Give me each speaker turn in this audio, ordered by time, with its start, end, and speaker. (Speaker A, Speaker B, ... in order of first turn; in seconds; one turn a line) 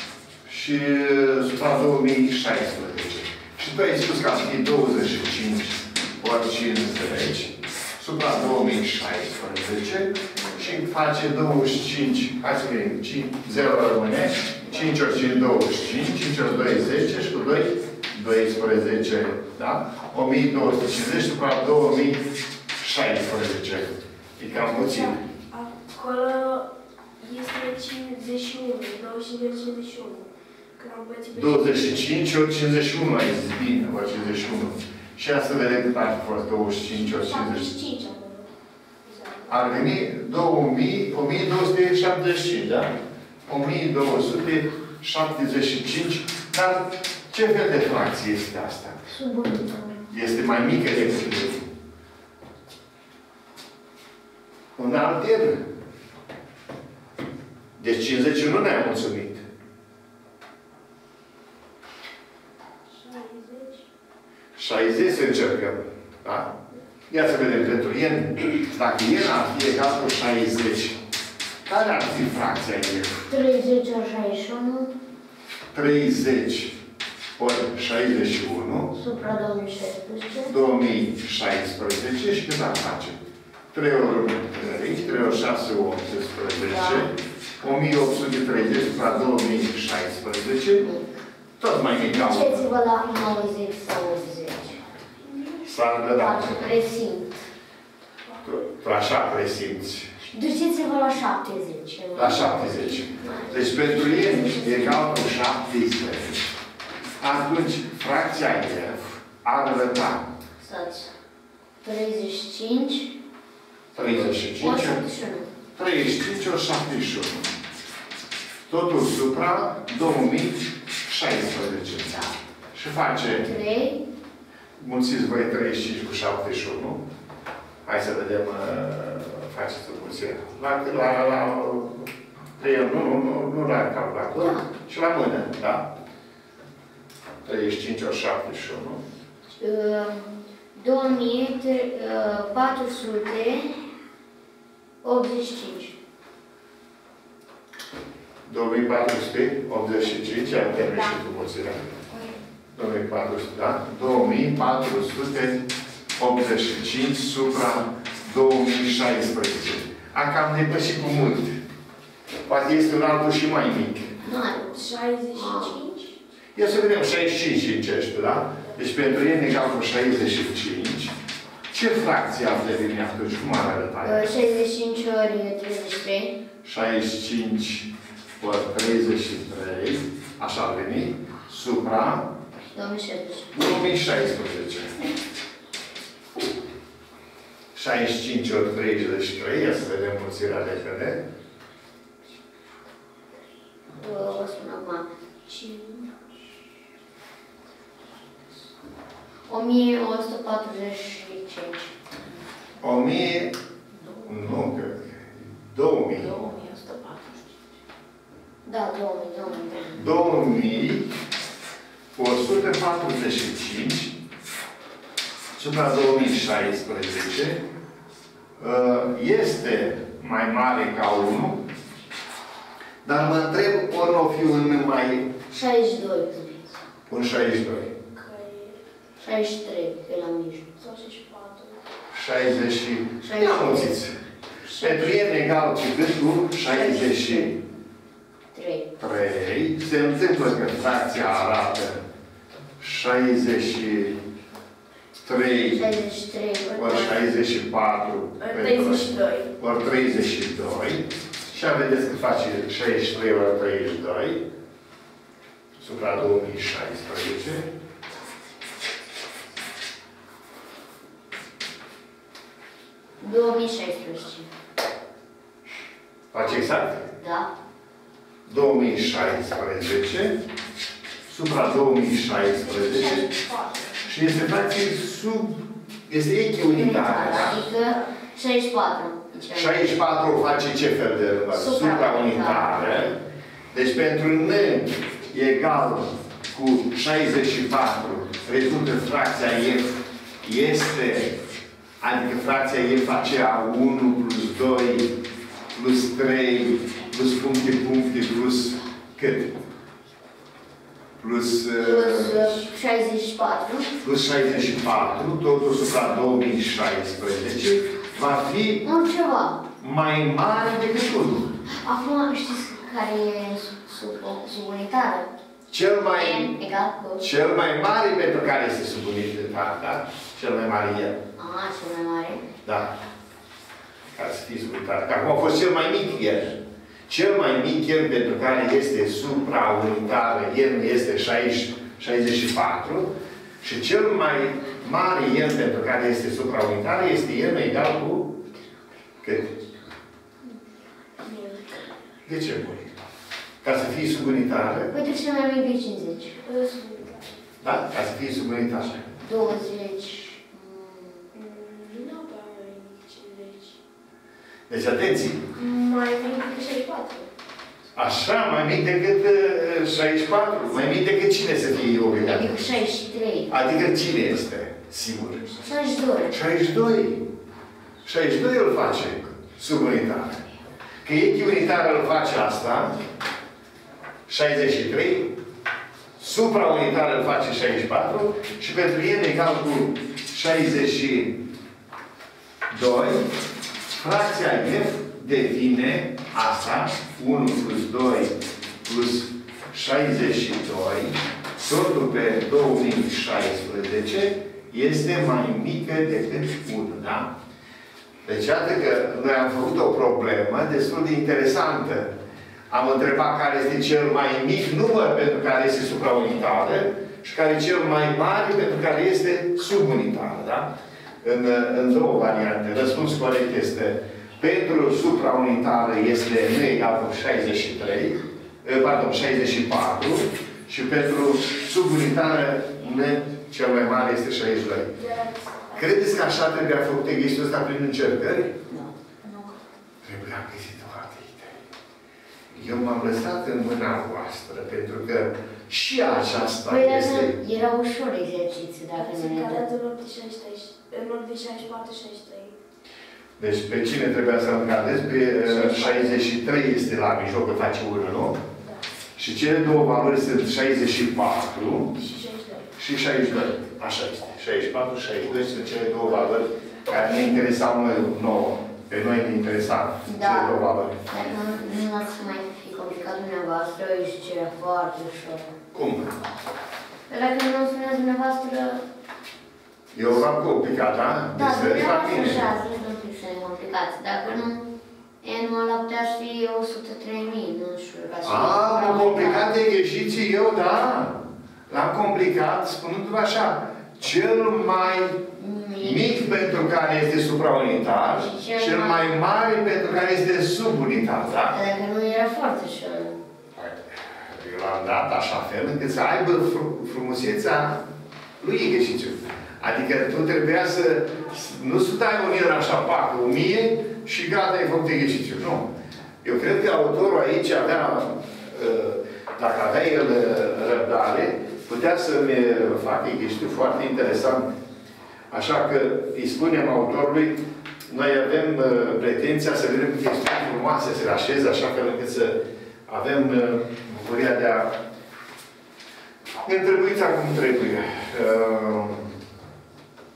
Speaker A: 0.5-25.2
Speaker B: 10.4-10.7
Speaker C: 24.6-26.7
Speaker C: 27.2-32.1
Speaker A: 31.3-37.8
Speaker C: 37.0-38.5
Speaker C: 39.0-39.7
Speaker A: 39.5-42.9
Speaker A: 43.5-49.1
Speaker B: 49.1-50.0
Speaker A: 50.1-51.7
Speaker A: 54.8-55.7
Speaker A: 57.8-59.5
Speaker C: 62.9-63.9
Speaker A: 64.6-66.5
Speaker A: 67.1-71.0
Speaker A: 71.7-73.3
Speaker B: 73.3-74.9
Speaker A: 75.7-76.8
Speaker A: 77.4-78.9
Speaker B: 78.9-80.5
Speaker A: 80.5-83.2
Speaker A: 83.7-90.8
Speaker B: 86.7-87.1
Speaker A: 91.6-92.7
Speaker B: 92.1-94.8
Speaker A: 95.6-96.7
Speaker B: 96.2-97.4
Speaker C: 98.3-98.6
Speaker A: 98.4-100.1
Speaker B: 100.2-104.6
Speaker A: 102.2-106.6
Speaker C: 103.7-105.0
Speaker A: 107.2-110.3
Speaker B: 110.6-111.1
Speaker B: 111.8-113.2
Speaker A: 113.9-115.0
Speaker B: 114.1-115.5
Speaker A: 115.8-117.5
Speaker A: 118.7-123.5
Speaker B: 123.3-124.0
Speaker A: 124.8-127.1
Speaker A: 127.8-135.9
Speaker B: 134.4-134.7
Speaker A: 137.4-139.0
Speaker B: 139.5-143.8
Speaker B: 145.0-146.0
Speaker A: 148.4-152.0
Speaker A: 152.8-161.6
Speaker A: 162.5-164.2
Speaker B: 164.2-164.8
Speaker C: 164.7-166.2
Speaker B: 165.3-165.8
Speaker A: 166.6-171.2
Speaker A: 171.7-174.3
Speaker B: 174.0-176.4
Speaker A: 176.6-182.3
Speaker B: 182.7-183.6
Speaker A: 183.5-185.0
Speaker A: 187.7-191.2
Speaker B: 194.0-195.8
Speaker B: 199.5-202.0
Speaker A: 202.8-203.6
Speaker A: 204.2-206.4
Speaker B: 206.4-206.9
Speaker C: 206.5-207.4
Speaker B: 208.7-210.0
Speaker A: 209.9-211.1
Speaker A: 212.2-214.2
Speaker A: 215.6-217.6
Speaker A: 218.6-221.7
Speaker A: 223.0-225.4
Speaker B: 225.5-226.7
Speaker A: 227.1-227.9
Speaker C: 228.2-228.8
Speaker B: 229.2-230.7
Speaker C: 230.8-231.8
Speaker A: 232.1-234.2
Speaker B: 233.2-233.9
Speaker B: 234.7-235.1
Speaker A: 234.8-237.6
Speaker B: 236.7-237.5
Speaker B: 238.5-238.9
Speaker A: 239.0-242.0
Speaker A: 242.8-244.2
Speaker A: 245.2-245.9
Speaker B: 245.7-247.3
Speaker A: 246.7-254.4
Speaker C: 248.4-249.5
Speaker A: 255.8-257.7
Speaker B: 263.2-264.5
Speaker A: 266.3-267.0
Speaker B: 267.0-267.5
Speaker A: 268.5-270.4
Speaker A: 271.3-273.3
Speaker C: 272.4-274.1
Speaker A: 274.0-277.7
Speaker B: 276.7-279.9
Speaker C: 277.4-278.1
Speaker A: 279.5-283.2
Speaker B: 281.5-282.9
Speaker A: 283.7-289.9
Speaker A: 290.4-291.4
Speaker A: 292.0-295.1
Speaker A: 295.7-299.5
Speaker A: 301.2-302.6
Speaker B: 301.8-303.9
Speaker A: 304.0-308.9
Speaker B: 308.8-309.6
Speaker A: 309.8-311.5
Speaker B: 311.7-315.3
Speaker A: 315.7-316.6
Speaker B: 316.2-317.3
Speaker A: 317.2-321.2
Speaker B: 321.4-322.5
Speaker A: 322.6-323.0
Speaker A: 324.1-338.4
Speaker A: 339.2-339.5
Speaker C: 341.2-341.9
Speaker A: 342.3-342.9
Speaker A: 343.6-344.9
Speaker B: 344.9-346.4
Speaker C: 346.4-347.4
Speaker A: 347.6-349.2
Speaker B: 349.2-351.3
Speaker C: 351.3-353.8
Speaker A: 354.7-355.5
Speaker C: 355.5-357.3
Speaker A: 357.9-362.6
Speaker B: 362.2-363.5
Speaker A: 363.5-365.5
Speaker B: 365.6-366.4
Speaker A: 366.3-367.3
Speaker A: 368.0-370.4
Speaker A: 371.0-373.0
Speaker A: 374.3-375.4
Speaker A: 376.2-381.4
Speaker A: 382.7-383.3
Speaker A: 384.0-397.4
Speaker A: 398.2-402.1
Speaker A: 402.7-425.0
Speaker C: 425.0-426.1
Speaker A: 425.7-428.5
Speaker B: 428.7-429.4
Speaker A: 430.0-431.6
Speaker A: 432.5-437.4
Speaker B: 436.7-439.6
Speaker C: 439.0-442.6
Speaker A: 443.4-448.4
Speaker C: 445.6-446.1
Speaker A: 449.2-451.9
Speaker C: 451.9-452.7
Speaker A: 452.8-461.0
Speaker B: 460.1-465.6
Speaker A: 465.7-466.2
Speaker B: 467.1-468.8
Speaker A: 469.9-472.5
Speaker B: 471.4-474.7
Speaker B: 475.2-479.5
Speaker A: 478.2-485.2
Speaker B: 485.4-486.2
Speaker A: 485.8-491.6
Speaker B: 488.2-489.1
Speaker B: 491.5-493.2
Speaker A: 493.6-497.9
Speaker A: 498.4-514.5
Speaker A: 515.3-524.8
Speaker A: 526.4-529.1